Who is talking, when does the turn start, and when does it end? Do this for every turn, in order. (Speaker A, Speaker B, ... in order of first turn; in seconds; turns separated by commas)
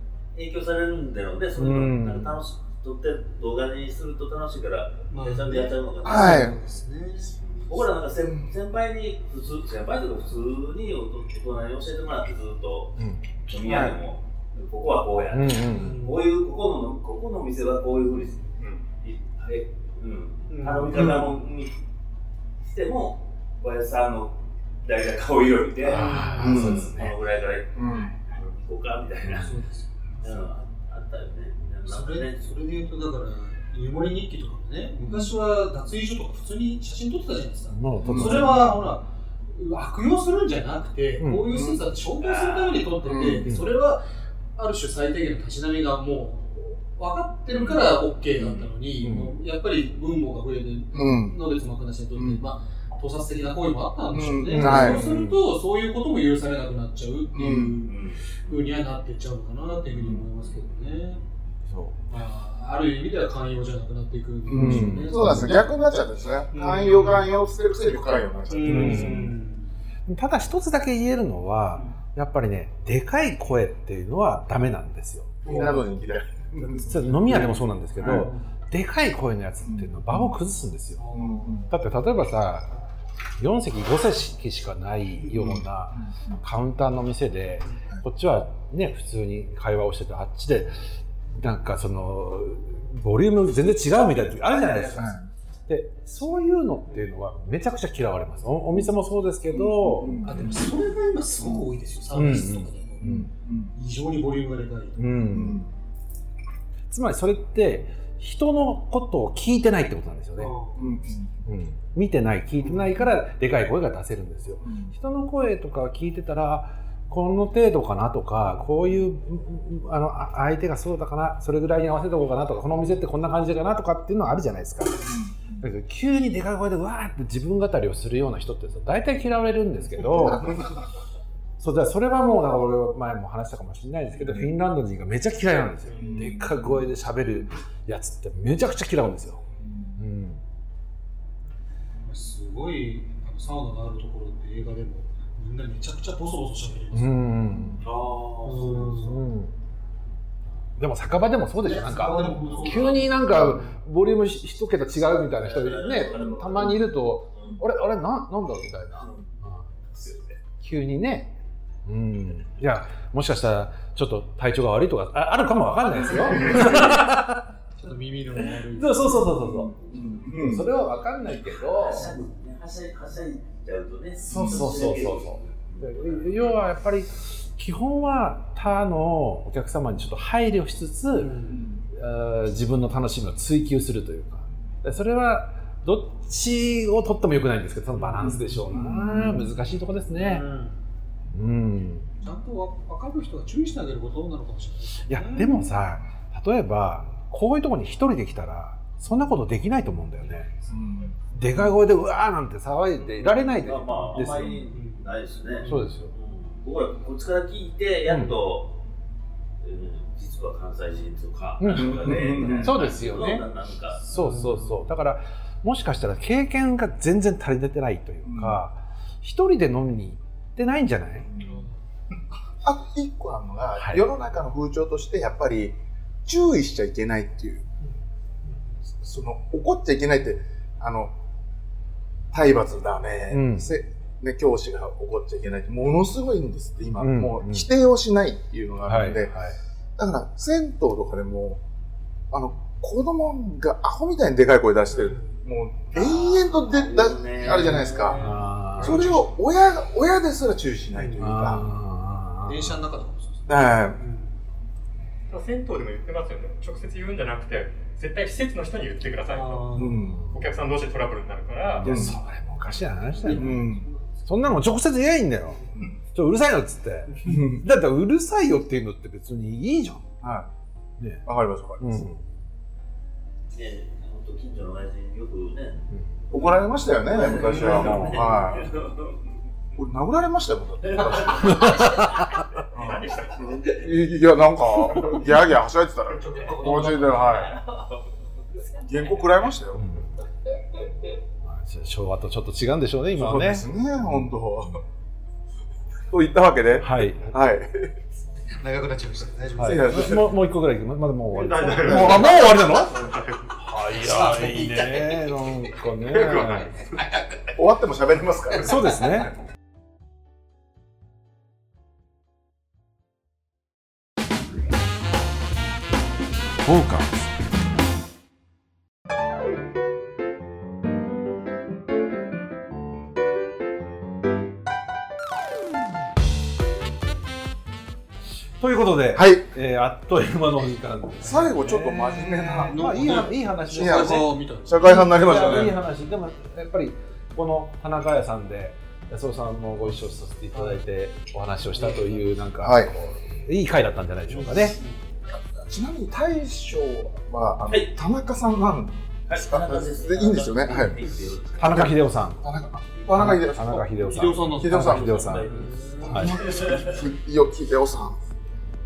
Speaker A: 0.3-6.5, Speaker B: 1.6-2.4, Speaker C: 5.1-7.6, Speaker D: 6.0-6.6, Speaker A: 7.7-21.8, Speaker B: 13.0-13.9, Speaker C: 13.6-13.9, Speaker B: 15.3-16.0, Speaker C: 15.7-16.3, Speaker E: 18.6-18.8, Speaker C: 20.5-21.3, Speaker A: 22.6-29.5, Speaker B: 25.8-27.2, Speaker C: 25.9-26.7, Speaker D: 26.4-26.9, Speaker D: 27.7-28.1, Speaker B: 29.3-29.5, Speaker C: 29.3-30.0, Speaker A: 30.2-32.5, Speaker C: 31.9-61.2, Speaker B: 37.7-38.8, Speaker D: 38.0-38.6, Speaker B: 41.2-41.5, Speaker D: 41.5-41.9, Speaker A: 42.3-42.9, Speaker D: 43.0-43.5, Speaker B: 43.4-43.7, Speaker A: 47.5-47.8, Speaker B: 49.0-49.3, Speaker D: 50.9-51.3, Speaker D: 52.1-52.4, Speaker D: 54.1-55.0, Speaker B: 54.5-55.4, Speaker D: 57.3-57.9, Speaker A: 57.8-58.2, Speaker B: 61.7-62.0, Speaker C: 62.1-65.7, Speaker D: 64.5-69.3, Speaker B: 64.5-65.7, Speaker C: 66.5-67.2, Speaker C: 68.5-69.7, Speaker B: 68.6-69.3, Speaker B: 70.0-75.4, Speaker C: 75.4-75.8, Speaker D: 75.4-78.3, Speaker B: 76.8-81.0, Speaker C: 78.1-78.5, Speaker D: 79.7-80.3, Speaker C: 81.0-81.7, Speaker D: 81.1-81.7, Speaker B: 81.7-82.7, Speaker B: 83.4-90.7, Speaker D: 85.3-86.4, Speaker B: 91.3-95.1, Speaker D: 95.0-95.3, Speaker B: 95.7-100.6, Speaker D: 99.5-100.5, Speaker C: 100.2-103.0, Speaker B: 102.1-103.3, Speaker D: 103.0-103.7, Speaker C: 103.7-105.1, Speaker B: 105.0-105.6, Speaker D: 105.2-105.7, Speaker B: 106.9-110.5, Speaker C: 110.4-110.8, Speaker D: 110.8-111.3, Speaker B: 111.5-130.6, Speaker D: 114.6-114.9, Speaker D: 125.0-125.6, Speaker D: 130.2-130.6, Speaker B: 131.6-139.4, Speaker C: 135.9-136.3, Speaker D: 136.0-136.4, Speaker D: 139.6-139.9, Speaker B: 140.0-140.4, Speaker C: 142.0-147.4, Speaker B: 146.9-147.8, Speaker A: 147.8-149.1, Speaker C: 148.4-149.2, Speaker B: 148.8-149.5, Speaker B: 150.8-159.7, Speaker C: 151.6-153.7, Speaker A: 152.6-153.1, Speaker A: 155.2-157.6, Speaker A: 159.0-159.3, Speaker A: 160.0-160.3, Speaker B: 160.6-161.3, Speaker B: 161.8-167.5, Speaker D: 166.1-167.0, Speaker C: 167.8-169.4, Speaker B: 168.6-172.2, Speaker A: 169.7-170.2, Speaker D: 169.8-170.7, Speaker A: 171.7-176.3, Speaker B: 174.2-181.3, Speaker D: 174.3-174.9, Speaker C: 181.1-181.6, Speaker B: 181.9-190.4, Speaker C: 187.9-188.8, Speaker D: 188.6-189.4, Speaker C: 190.2-190.8, Speaker B: 191.3-192.1, Speaker C: 192.2-195.7, Speaker B: 195.1-200.5, Speaker D: 200.7-201.2, Speaker B: 201.3-204.6, Speaker A: 203.0-208.7, Speaker C: 203.9-205.1, Speaker C: 205.6-205.9, Speaker B: 205.6-206.1, Speaker B: 208.1-208.4, Speaker A: 209.6-214.0, Speaker B: 211.6-213.4, Speaker D: 211.7-212.8, Speaker B: 214.0-221.3, Speaker C: 214.1-214.8, Speaker D: 218.2-218.6, Speaker C: 221.4-221.7, Speaker D: 222.6-227.6, Speaker B: 223.8-224.1, Speaker C: 227.8-228.8, Speaker D: 229.0-231.1, Speaker D: 232.3-239.3, Speaker B: 233.3-233.7, Speaker B: 237.0-237.7, Speaker B: 238.8-239.6, Speaker D: 240.0-241.6, Speaker D: 242.3-248.2, Speaker C: 244.9-245.3, Speaker A: 245.9-248.2, Speaker C: 247.4-249.3, Speaker B: 248.2-249.0, Speaker D: 248.8-251.6, Speaker C: 250.9-251.3, Speaker B: 251.2-252.8, Speaker C: 252.4-254.4, Speaker D: 253.5-254.0, Speaker E: 255.3-262.1, Speaker C: 259.3-260.0, Speaker D: 259.7-260.2, Speaker B: 259.9-260.5, Speaker B: 261.7-263.6, Speaker D: 261.8-262.1, Speaker C: 263.2-264.0, Speaker D: 263.3-263.8, Speaker B: 264.2-265.6, Speaker B: 266.1-270.1, Speaker D: 267.2-267.6, Speaker D: 270.2-270.5, Speaker B: 271.0-271.2, Speaker D: 271.2-272.1, Speaker B: 271.8-272.2, Speaker A: 273.5-275.8, Speaker D: 276.3-278.7, Speaker A: 277.1-279.3, Speaker B: 277.5-278.4, Speaker D: 279.7-281.7, Speaker A: 280.8-283.8, Speaker B: 281.4-282.4, Speaker D: 282.7-287.5, Speaker C: 286.1-287.4, Speaker A: 286.2-289.5, Speaker D: 288.8-289.8, Speaker B: 289.7-290.1, Speaker B: 291.4-294.2, Speaker D: 293.1-294.8, Speaker D: 296.1-297.9, Speaker B: 296.8-297.4, Speaker C: 298.5-300.2, Speaker B: 299.6-306.9, Speaker D: 299.6-300.3, Speaker E: 301.3-303.6, Speaker D: 301.8-302.4, Speaker C: 303.9-305.3, Speaker E: 306.3-306.7, Speaker D: 307.5-309.2, Speaker B: 308.6-309.3, Speaker B: 316.6-317.3, Speaker B: 328.6-344.8, Speaker D: 329.1-329.4, Speaker D: 331.2-332.8, Speaker C: 332.7-335.1, Speaker D: 333.7-335.8, Speaker C: 340.5-340.8, Speaker C: 341.8-342.2, Speaker D: 342.6-342.9, Speaker C: 344.3-344.9, Speaker D: 345.6-351.0, Speaker A: 349.3-351.9, Speaker B: 351.6-352.4, Speaker D: 351.6-353.9, Speaker B: 353.1-356.4, Speaker C: 353.1-356.4, Speaker D: 354.5-355.4, Speaker A: 355.2-357.0, Speaker D: 356.1-358.2